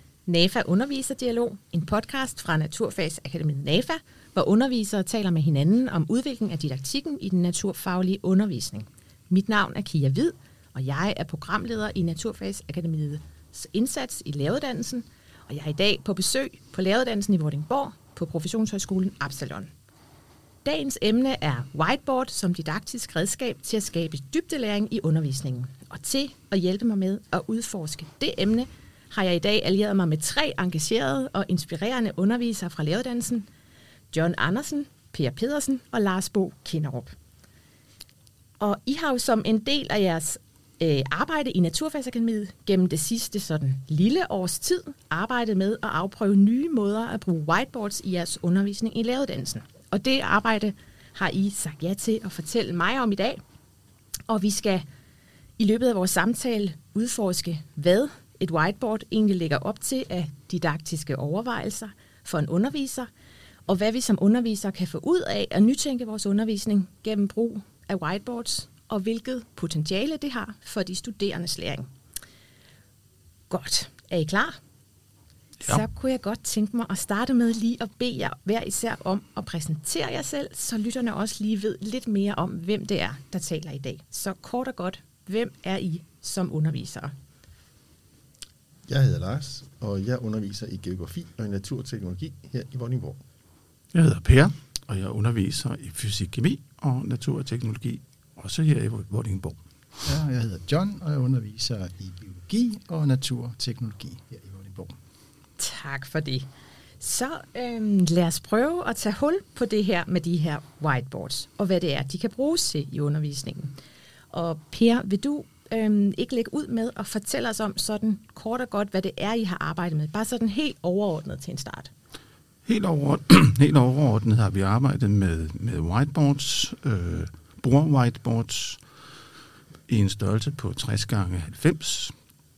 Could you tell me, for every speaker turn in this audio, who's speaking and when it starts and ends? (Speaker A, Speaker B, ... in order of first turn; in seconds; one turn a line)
Speaker A: 0.2-19.7
Speaker A: 20.6-33.5
Speaker A: 34.1-37.1
Speaker A: 38.6-53.4
Speaker A: 54.3-54.8
Speaker A: 55.6-63.1
Speaker A: 63.7-71.9
Speaker A: 73.5-74.5
Speaker A: 75.7-87.1
Speaker B: 88.9-93.2
Speaker C: 93.9-99.6
Speaker D: 100.0-104.9
Speaker A: 105.6-106.5
Speaker A: 107.0-113.7
Speaker A: 114.3-121.9
Speaker C: 122.6-128.8
Speaker C: 129.9-132.1